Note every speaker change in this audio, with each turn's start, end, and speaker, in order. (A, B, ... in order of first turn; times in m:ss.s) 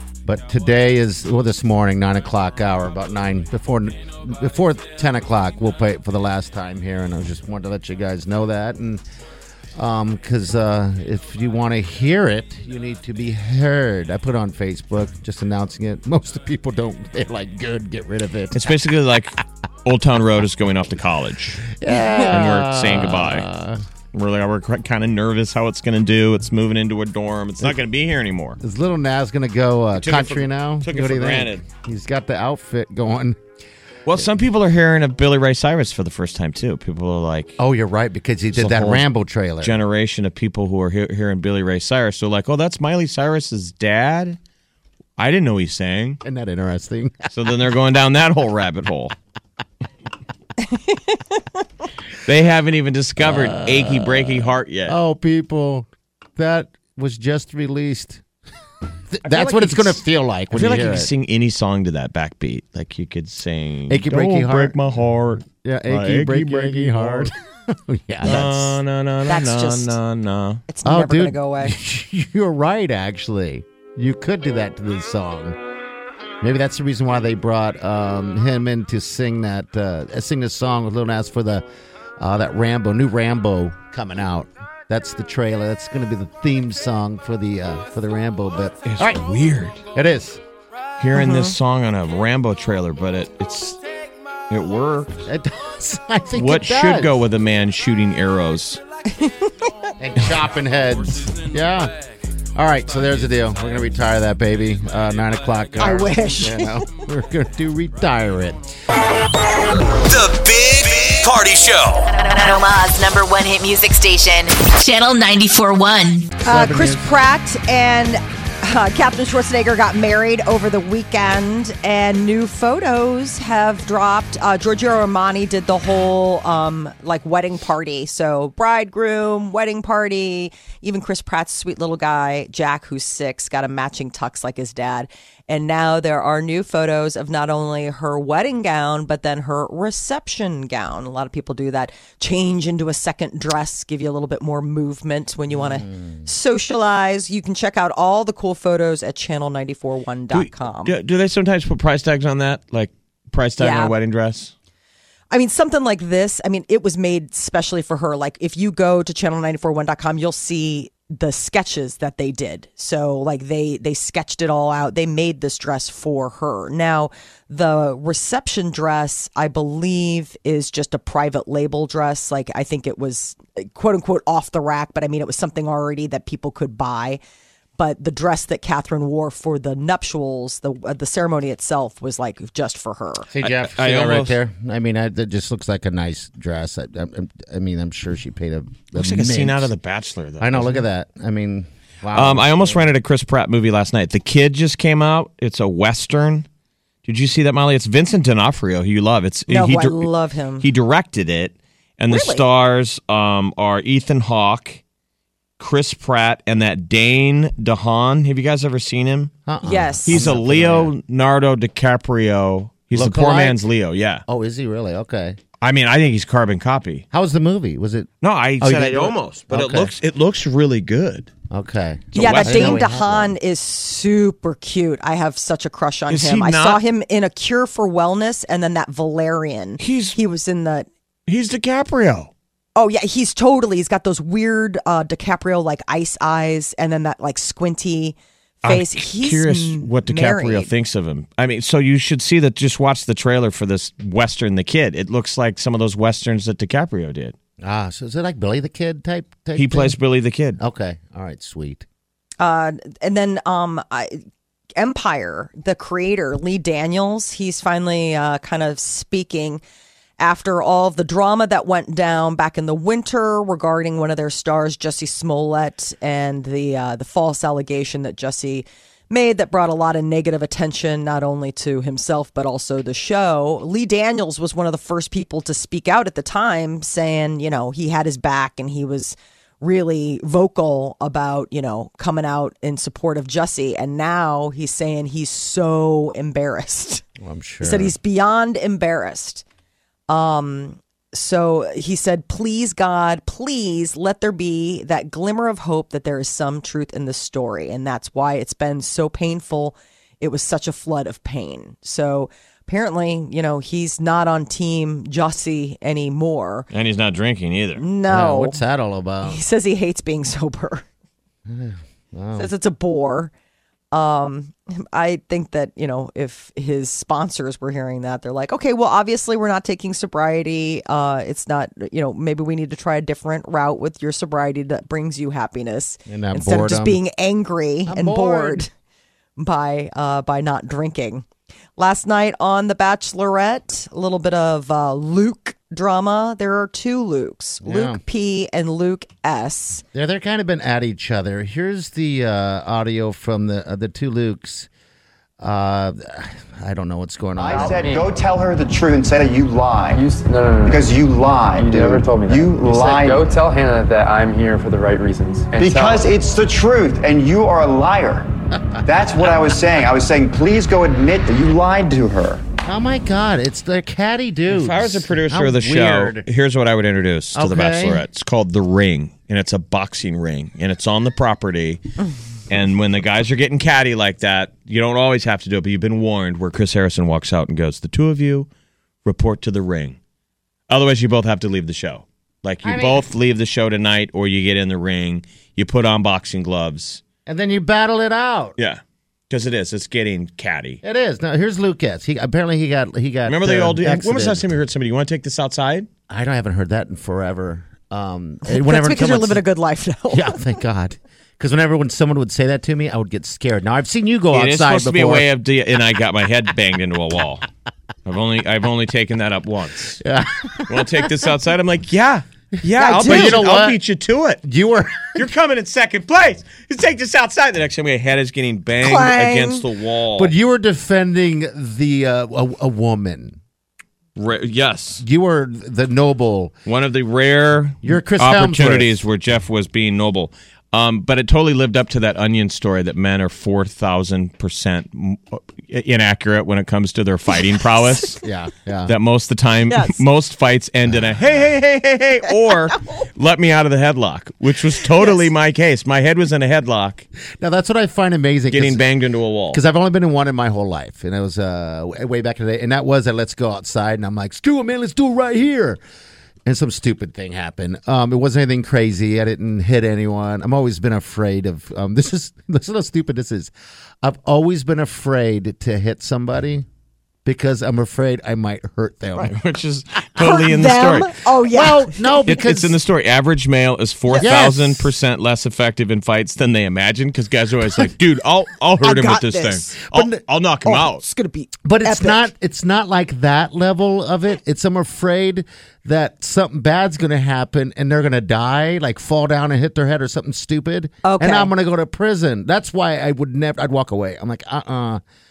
0:00.2-0:09.0 A
0:09.7-0:18.7 A
0:18.5-0:21.7 B
0:21.7-0:23.8 A
0:21.9-0:22.3 C
0:22.3-0:23.5 B
0:24.1-0:28.6 B
0:28.6-0:33.4 A
0:30.0-0:31.6 B
0:34.0-0:37.6 B
0:37.6-0:39.8 A
0:38.5-0:39.1 B
0:39.6-0:44.4 B
0:45.2-0:46.2 B
0:46.2-0:47.3 A
0:47.3-0:49.1 B
0:50.6-0:51.4 C
0:52.2-0:55.0 B
0:53.2-0:58.2 A
0:59.1-1:01.1 A
0:59.2-1:07.3 B
1:03.9-1:04.8 A
1:05.5-1:08.8 A
1:08.2-1:10.6 B
1:09.3-1:10.0 C
1:10.7-1:11.8 C
1:10.8-1:15.6 A
1:16.4-1:21.6 A
1:22.2-1:29.2 A
1:28.8-1:29.8 B
1:29.9-1:30.4 A
1:31.0-1:33.8 B
1:31.1-1:31.6 C
1:34.5-1:35.2 B
1:35.2-1:37.1 A
1:36.3-1:38.8 B
1:39.1-1:39.7 C
1:40.0-1:42.0 A
1:42.5-1:48.6 A
1:45.8-1:46.9 C
1:50.0-1:52.1 D
1:52.1-1:56.4 E
1:56.4-1:57.0 A
1:56.4-2:30.9 C
2:25.5-2:26.3 A
2:30.3-2:34.5 B
2:33.6-2:33.9 C
2:35.3-2:57.2 C
2:57.8-3:03.3 C
3:03.3-3:09.7 A
3:03.4-3:04.4 B
3:08.9-3:10.8 B
3:10.4-3:12.8 A
3:12.1-3:16.5 B
3:17.0-3:24.8 B
3:19.5-3:20.6 C
3:22.1-3:22.4 C
3:25.6-3:29.3 B
3:29.5-3:30.9 A
3:29.6-3:30.3 C
3:30.0-3:34.2 B
3:32.9-3:33.6 A
3:34.3-3:35.4 A
3:35.6-3:37.0 B
3:37.1-3:38.1 A
3:38.2-3:41.3 B
3:38.6-3:39.9 A
3:41.5-3:43.3 A
3:42.1-3:42.9 B
3:42.1-3:50.9 C
3:46.1-3:46.8 B
3:49.8-3:50.2 B
3:51.3-3:52.3 B
3:52.8-4:00.7 C
3:58.6-4:07.3 B
4:07.6-4:10.0 A
4:09.5-4:10.6 B
4:10.6-4:11.8 A
4:12.4-4:14.2 C
4:14.8-4:19.6 C
4:20.2-4:47.0 C
4:47.2-4:47.9 A
4:47.6-4:49.4 C
4:50.1-5:06.7 C
5:06.7-5:07.8 B
5:07.8-5:08.6 C
5:08.1-5:09.4 A
5:09.2-5:10.8 C
5:11.4-5:12.5 A
5:12.4-5:13.3 C
5:13.9-5:28.7 C
5:26.1-5:27.0 A
5:27.8-5:28.7 A
5:29.4-5:31.2 C
5:31.8-5:39.8 C
5:37.6-5:38.0 A
5:39.9-5:44.7 A
5:45.4-5:48.0 A
5:47.4-5:50.0 F
5:47.6-5:48.2 G
5:49.9-5:50.9 G
5:50.6-5:53.3 F
5:51.5-5:56.1 G
5:55.6-5:58.3 F
5:58.8-6:02.4 F
6:02.6-6:06.2 A
6:04.5-6:11.8 B
6:07.3-6:08.0 A
6:12.5-6:18.5 B
6:19.0-6:20.0 B
6:20.7-6:27.0 B
6:22.6-6:23.1 A
6:27.2-6:28.6 A
6:28.6-6:30.8 B
6:30.8-6:34.5 A
6:33.2-6:35.9 B
6:36.1-6:39.4 A
6:38.4-6:40.4 C
6:40.1-6:45.3 A
6:44.3-6:47.4 B
6:48.0-6:50.0 B
6:50.0-6:51.1 A
6:50.7-6:54.4 B
6:52.7-6:53.8 A
6:52.8-6:53.4 C
6:54.4-6:55.2 A
6:55.1-7:00.3 B
6:58.8-6:59.6 C
7:00.2-7:03.4 A
7:04.2-7:05.0 B
7:05.0-7:06.6 A
7:06.6-7:18.2 B
7:07.8-7:09.0 A
7:18.2-7:18.9 A
7:18.9-7:27.0 B
7:19.7-7:20.0 C
7:20.9-7:21.2 A
7:25.0-7:25.2 C
7:27.4-7:28.8 A
7:28.5-7:29.6 B
7:29.5-7:35.8 A
7:36.4-7:43.5 A
7:44.0-7:46.6 A
7:47.2-7:49.3 A
7:49.2-7:51.2 B
7:50.2-7:52.2 C
7:51.5-7:52.8 A
7:52.2-8:01.0 B
7:54.1-7:54.4 C
7:54.2-7:54.9 A
7:58.8-7:59.9 C
8:00.6-8:02.3 C
8:01.6-8:15.0 A
8:11.0-8:11.5 C